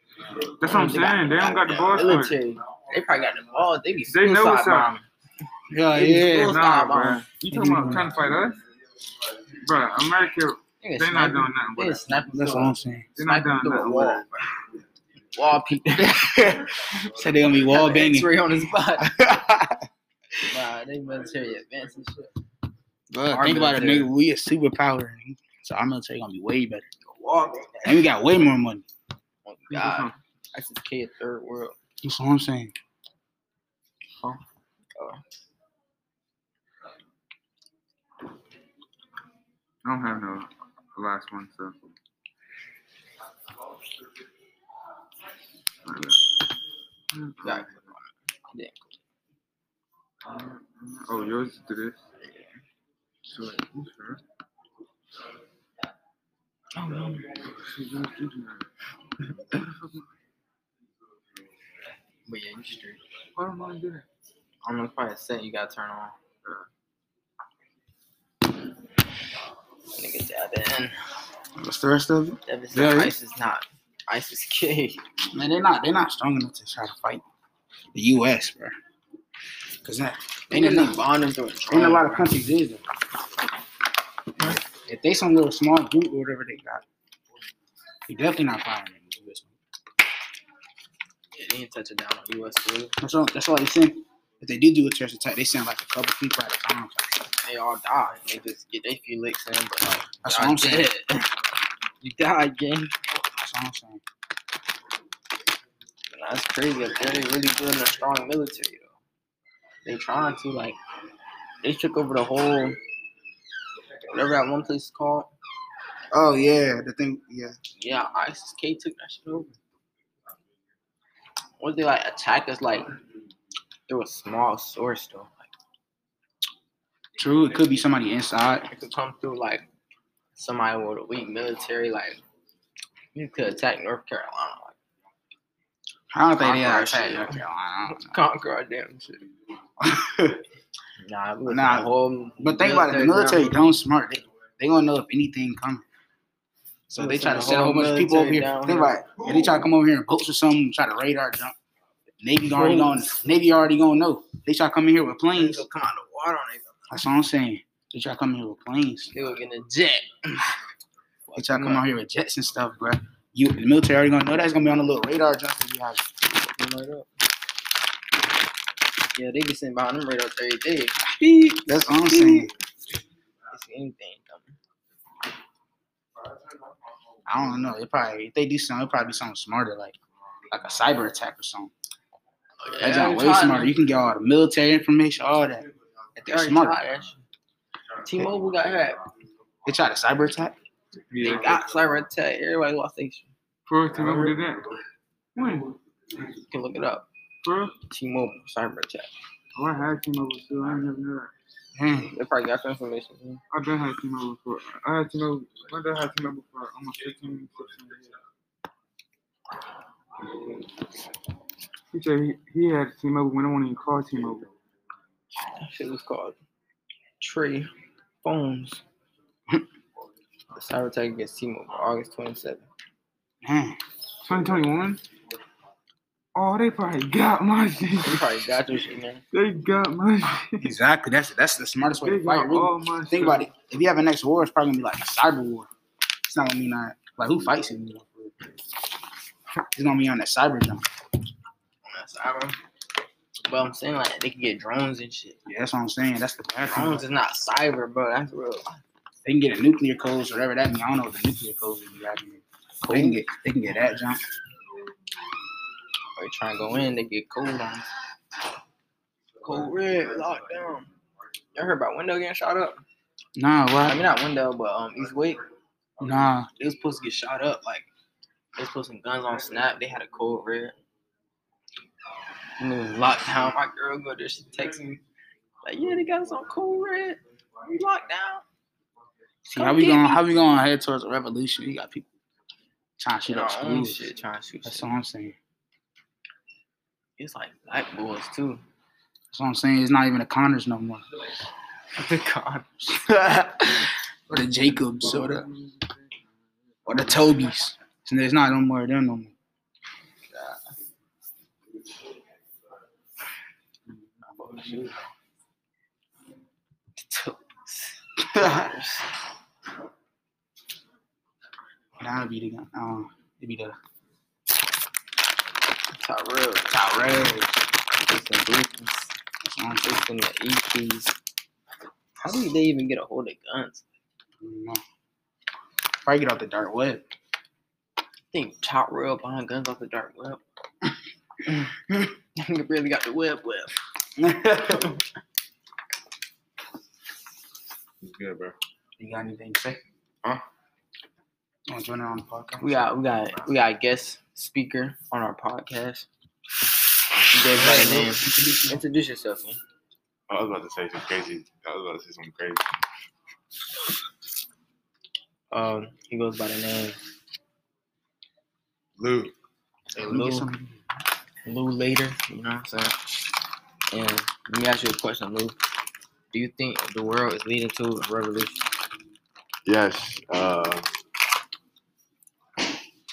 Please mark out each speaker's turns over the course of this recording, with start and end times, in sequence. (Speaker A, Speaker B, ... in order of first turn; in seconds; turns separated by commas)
Speaker A: 0.6-2.4, Speaker B: 0.6-5.1, Speaker A: 4.1-4.9, Speaker C: 5.7-6.6, Speaker B: 5.9-7.3, Speaker A: 6.5-8.6, Speaker C: 7.5-8.1, Speaker A: 9.5-12.0, Speaker B: 10.8-14.6, Speaker C: 12.3-13.1, Speaker A: 13.2-14.3, Speaker B: 15.2-16.9, Speaker C: 16.1-18.4, Speaker B: 17.6-19.1, Speaker C: 19.0-19.9, Speaker B: 20.4-22.3, Speaker C: 23.1-26.8, Speaker B: 23.2-24.1, Speaker B: 27.0-28.1, Speaker C: 27.8-28.8, Speaker B: 29.4-31.8, Speaker A: 29.7-30.1, Speaker C: 32.0-32.7, Speaker B: 34.9-35.2, Speaker A: 39.8-41.9, Speaker A: 45.8-46.4, Speaker A: 47.1-47.7, Speaker B: 47.4-49.0, Speaker A: 50.2-52.0, Speaker B: 52.2-52.5, Speaker A: 53.3-54.2, Speaker B: 56.7-57.5, Speaker A: 57.4-58.7, Speaker A: 59.3-60.0, Speaker B: 62.2-63.0, Speaker A: 63.4-64.0, Speaker B: 64.6-66.2, Speaker B: 69.9-71.0, Speaker C: 71.5-73.1, Speaker B: 72.5-75.0, Speaker C: 75.3-77.2, Speaker C: 77.9-78.7, Speaker C: 79.8-81.0, Speaker B: 80.5-82.3, Speaker C: 81.7-82.8, Speaker C: 84.4-86.8, Speaker C: 88.1-89.5, Speaker B: 91.3-92.9, Speaker C: 93.0-97.1, Speaker B: 97.4-101.3, Speaker C: 100.2-100.9, Speaker B: 102.0-102.9, Speaker C: 103.3-104.0, Speaker B: 106.1-109.0, Speaker B: 109.8-110.8, Speaker B: 111.6-112.8, Speaker B: 114.0-115.3, Speaker C: 116.1-117.5, Speaker B: 117.7-119.6, Speaker B: 121.6-122.9, Speaker B: 123.9-125.5, Speaker C: 127.2-128.7, Speaker B: 128.6-129.7, Speaker B: 130.3-132.2, Speaker B: 133.1-134.8, Speaker C: 136.1-138.2, Speaker B: 136.4-139.2, Speaker C: 139.8-140.4, Speaker B: 141.0-143.6, Speaker C: 141.4-145.8, Speaker C: 146.9-151.6, Speaker B: 147.0-149.1, Speaker C: 152.2-155.6, Speaker B: 152.5-153.2, Speaker B: 155.3-156.8, Speaker C: 156.9-159.1, Speaker B: 159.1-160.5, Speaker B: 161.3-161.9, Speaker C: 161.3-166.1, Speaker B: 166.3-167.1, Speaker B: 169.1-172.5, Speaker C: 171.6-172.5, Speaker B: 173.5-174.6, Speaker C: 177.2-180.0, Speaker C: 180.5-181.7, Speaker B: 182.6-183.7, Speaker C: 182.8-186.8, Speaker B: 186.3-187.2, Speaker B: 188.0-189.0, Speaker C: 189.7-190.6, Speaker A: 191.1-191.6, Speaker B: 191.2-193.3, Speaker A: 193.7-194.7, Speaker B: 193.9-194.3, Speaker A: 195.3-195.8, Speaker B: 196.2-197.1, Speaker A: 197.4-197.8, Speaker B: 197.8-199.1, Speaker A: 199.5-201.3, Speaker C: 201.8-202.1, Speaker B: 202.1-203.4, Speaker A: 203.5-208.2, Speaker A: 211.9-214.5, Speaker B: 215.4-216.4, Speaker B: 217.2-217.7, Speaker B: 218.2-218.8, Speaker B: 220.5-222.7, Speaker C: 223.4-223.8, Speaker A: 224.2-225.0, Speaker A: 226.3-228.3, Speaker B: 228.0-229.2, Speaker A: 229.3-230.7, Speaker C: 230.6-232.5, Speaker A: 232.0-233.5, Speaker B: 232.3-232.7, Speaker C: 233.1-235.7, Speaker C: 236.2-238.3, Speaker C: 239.7-240.8, Speaker B: 241.8-242.6, Speaker B: 243.4-245.4, Speaker C: 245.4-247.0, Speaker B: 246.7-248.8, Speaker C: 249.2-254.2, Speaker B: 252.8-253.2, Speaker B: 256.2-257.9, Speaker B: 259.4-260.9, Speaker B: 261.5-262.8, Speaker C: 263.4-264.0, Speaker B: 263.9-265.4, Speaker C: 266.0-266.5, Speaker B: 266.4-267.9, Speaker B: 268.6-270.7, Speaker B: 272.6-275.0, Speaker B: 275.6-278.4, Speaker C: 279.4-282.1, Speaker B: 279.5-280.4, Speaker C: 283.0-284.1, Speaker B: 283.2-284.9, Speaker C: 284.6-285.4, Speaker B: 287.2-288.6, Speaker C: 289.3-291.0, Speaker B: 291.9-292.9, Speaker C: 293.0-295.4, Speaker A: 294.4-296.3, Speaker A: 296.8-297.1, Speaker C: 296.9-299.3, Speaker B: 300.3-300.6, Speaker A: 304.4-304.8, Speaker C: 304.5-304.9, Speaker B: 306.9-309.1, Speaker C: 308.4-308.7, Speaker C: 312.0-313.8, Speaker B: 315.9-316.8, Speaker C: 316.7-317.5, Speaker B: 318.0-319.1, Speaker C: 319.4-320.0, Speaker B: 319.8-321.1, Speaker B: 322.2-323.8, Speaker C: 324.4-324.8, Speaker C: 326.0-327.0, Speaker B: 328.3-330.4, Speaker B: 331.4-333.8, Speaker C: 334.2-335.0, Speaker D: 338.0-338.6, Speaker C: 339.0-339.8, Speaker C: 341.7-342.7, Speaker B: 342.6-346.1, Speaker B: 347.2-349.6, Speaker C: 347.5-348.8, Speaker D: 350.3-352.6, Speaker B: 355.5-357.0, Speaker D: 359.0-359.3, Speaker B: 359.9-360.5, Speaker C: 359.9-360.8, Speaker B: 361.4-363.1, Speaker B: 363.9-365.6, Speaker B: 366.3-368.6, Speaker D: 369.6-370.9